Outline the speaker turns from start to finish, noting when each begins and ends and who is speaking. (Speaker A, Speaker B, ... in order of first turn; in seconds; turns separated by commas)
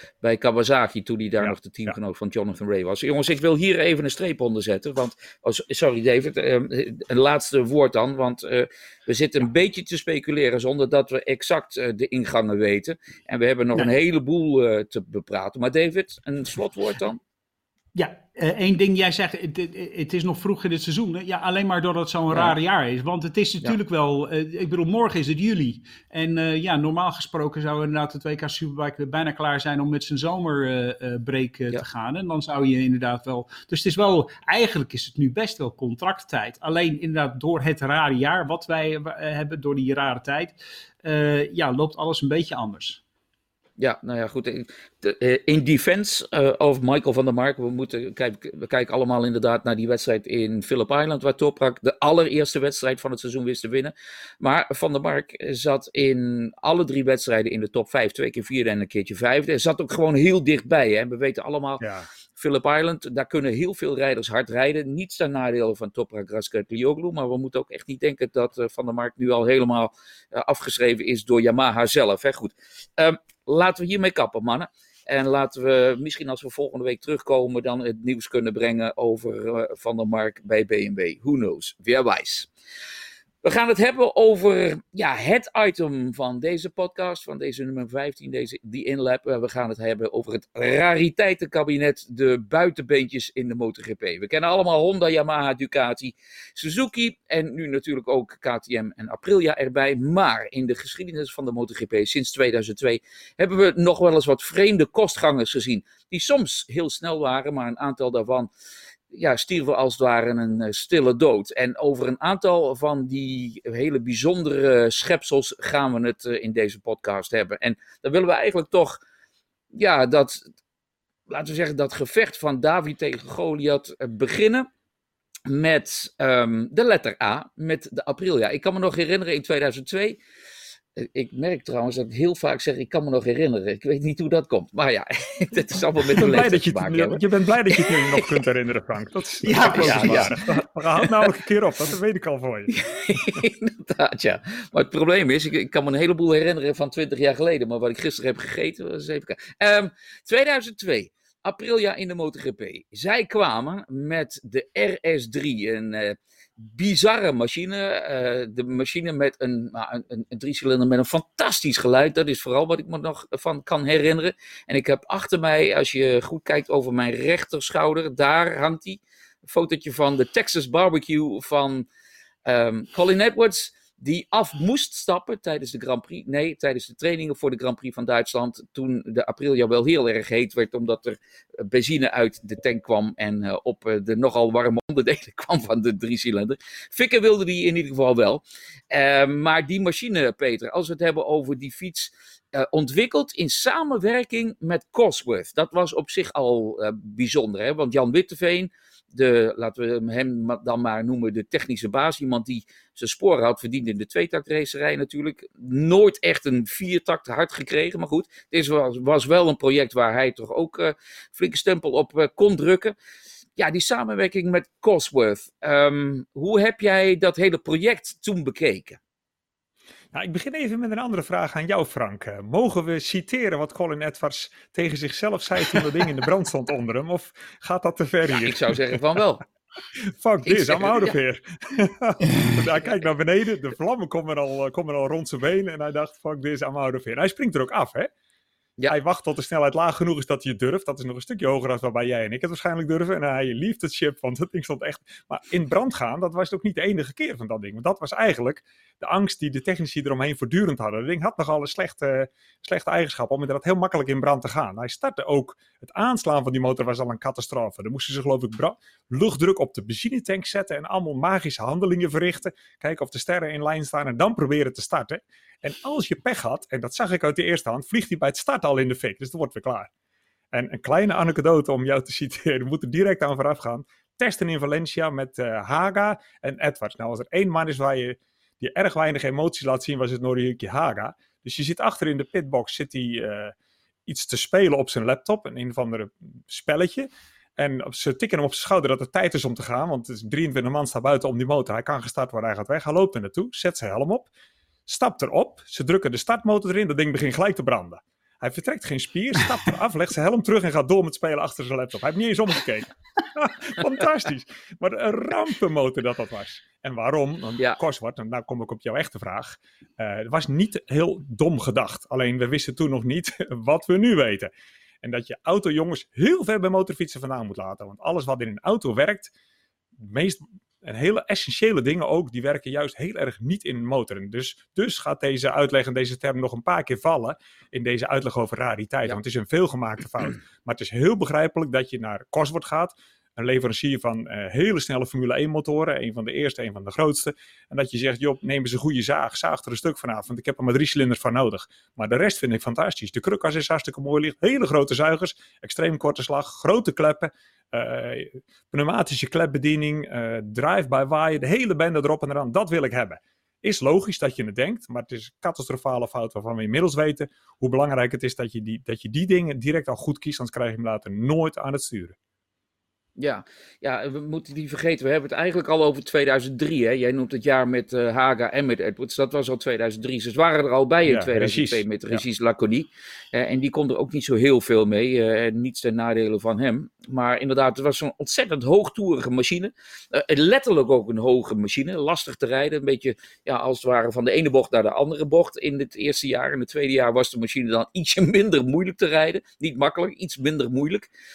Speaker A: 0.2-17.2, Speaker B: 1.4-1.9, Speaker C: 17.9-43.0, Speaker A: 22.3-22.6, Speaker A: 43.8-61.9, Speaker B: 61.8-62.1, Speaker A: 62.4-82.5, Speaker A: 83.4-108.5, Speaker A: 109.1-119.0, Speaker A: 119.7-120.4, Speaker A: 121.3-124.7, Speaker A: 125.5-130.2, Speaker A: 131.0-138.3, Speaker B: 136.1-142.7, Speaker C: 139.4-140.4, Speaker A: 139.6-140.3, Speaker A: 141.0-141.3, Speaker A: 142.7-171.9, Speaker A: 172.5-212.9, Speaker A: 213.6-219.0, Speaker B: 220.1-229.0, Speaker A: 228.3-229.4, Speaker B: 230.0-238.1, Speaker A: 230.4-231.2, Speaker B: 238.9-269.9, Speaker B: 270.5-283.6, Speaker B: 284.1-294.3, Speaker B: 294.9-314.5, Speaker B: 315.0-319.3, Speaker B: 320.0-362.1, Speaker A: 363.2-391.1, Speaker B: 371.1-372.2